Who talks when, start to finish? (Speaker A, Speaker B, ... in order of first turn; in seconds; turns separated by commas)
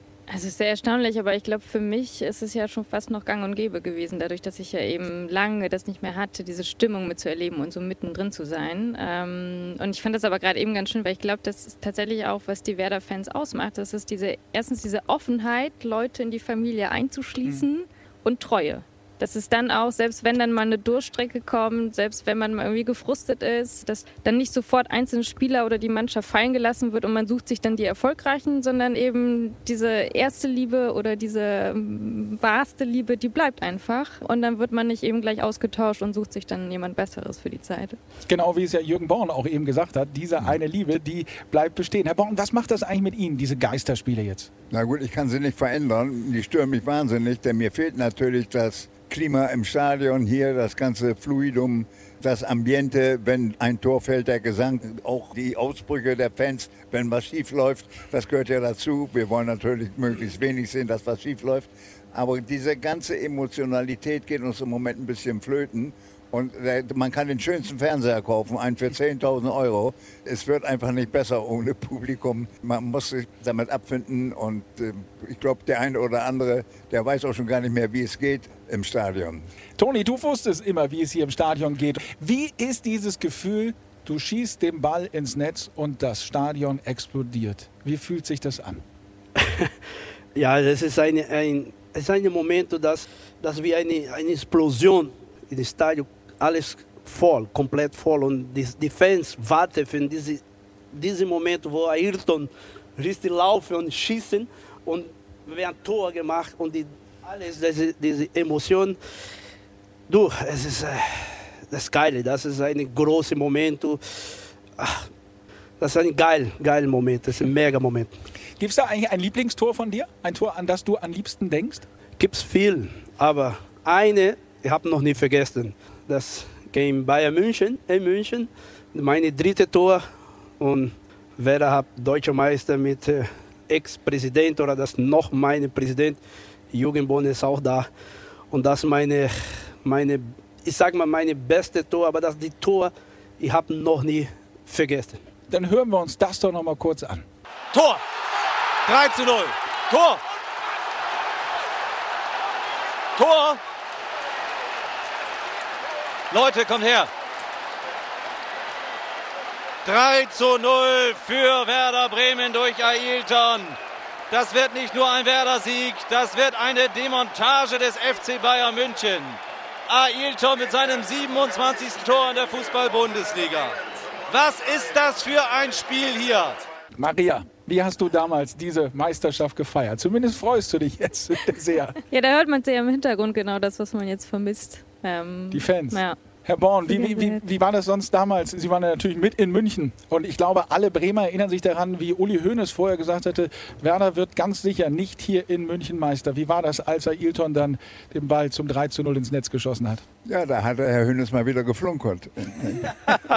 Speaker A: 0.3-38.0, Speaker B: 38.2-44.5, Speaker C: 44.7-79.5, Speaker B: 79.8-88.8, Speaker D: 89.4-89.7, Speaker D: 90.3-100.4, Speaker D: 100.9-109.0, Speaker D: 110.1-115.1, Speaker D: 115.8-118.1, Speaker B: 118.6-121.9, Speaker D: 122.2-130.0, Speaker D: 130.6-136.2, Speaker D: 136.7-137.9, Speaker D: 138.5-145.2, Speaker B: 145.5-147.2, Speaker E: 147.7-148.0, Speaker E: 148.8-150.2, Speaker E: 153.2-153.6, Speaker E: 156.3-157.1, Speaker E: 159.8-163.8, Speaker E: 164.3-173.7, Speaker E: 174.3-176.6, Speaker B: 177.0-182.0, Speaker A: 182.1-186.2, Speaker B: 185.5-200.0, Speaker A: 186.9-187.4, Speaker C: 200.2-202.9